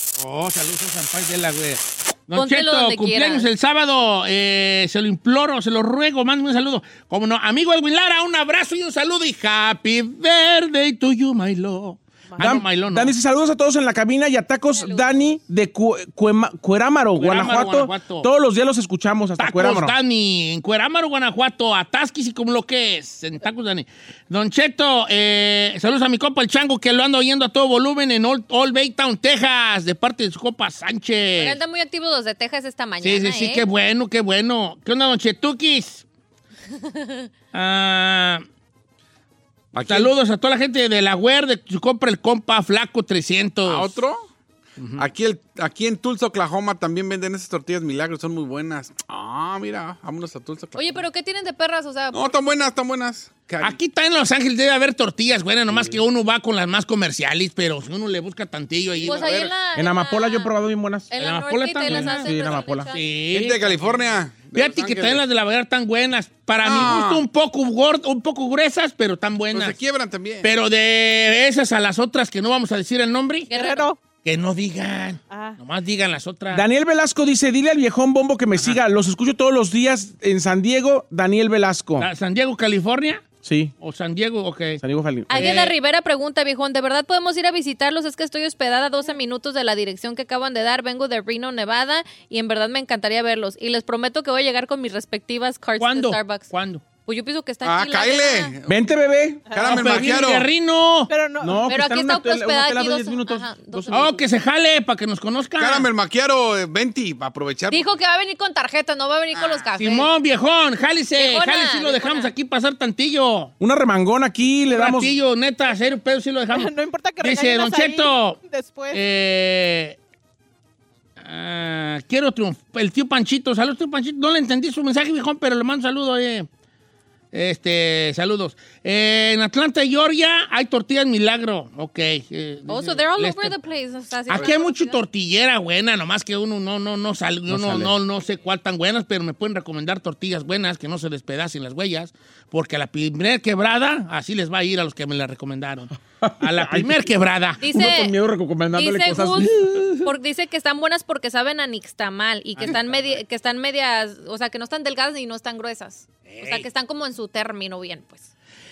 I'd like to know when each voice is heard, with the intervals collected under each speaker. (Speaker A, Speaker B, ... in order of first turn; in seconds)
Speaker A: 0.2-13.1, 17.2-18.3, 19.4-31.6, 33.0-36.0, 37.5-38.4, 39.8-44.0, 44.8-45.0, 53.6-59.4, 61.2-62.3, 62.9-69.8, 70.4-73.5, 74.2-76.6, 82.0-83.2, 83.8-84.8, 85.3-85.7, 95.8-96.8, 99.6-101.1, 103.9-105.9, 109.8-113.5, 114.7-118.4, 118.9-120.0, 121.2-126.5, 127.3-133.6, 134.3-147.6, 149.5-150.0, 152.6-153.2, 156.3-156.7
Speaker B: 2.3-3.5, 14.8-15.3, 31.4-33.6, 36.8-37.3, 50.8-52.3, 59.0-60.5, 61.1-63.1, 73.5-73.9, 85.3-96.5, 97.0-98.5, 101.7-104.2, 107.7-110.1, 111.2-112.3, 132.7-135.0, 147.6-148.2, 148.7-158.3
Speaker C: 12.3-12.6, 73.5-74.0, 75.3-75.6, 99.5-99.8, 101.1-101.7, 116.5-119.0
Speaker D: 12.4-19.9, 55.7-56.0, 59.7-61.1, 61.9-62.9, 76.5-82.1, 83.4-83.7, 84.8-85.4, 98.7-100.2, 101.4-104.0, 113.6-115.2, 137.5-137.9, 146.2-147.1, 147.6-149.8
Speaker E: 39.7-40.1, 43.6-44.2, 45.0-51.0, 52.1-53.8, 59.0-59.5, 63.3-65.2, 66.6-67.2, 69.5-70.5, 97.6-98.8, 99.5-100.5, 105.6-107.9, 109.3-109.6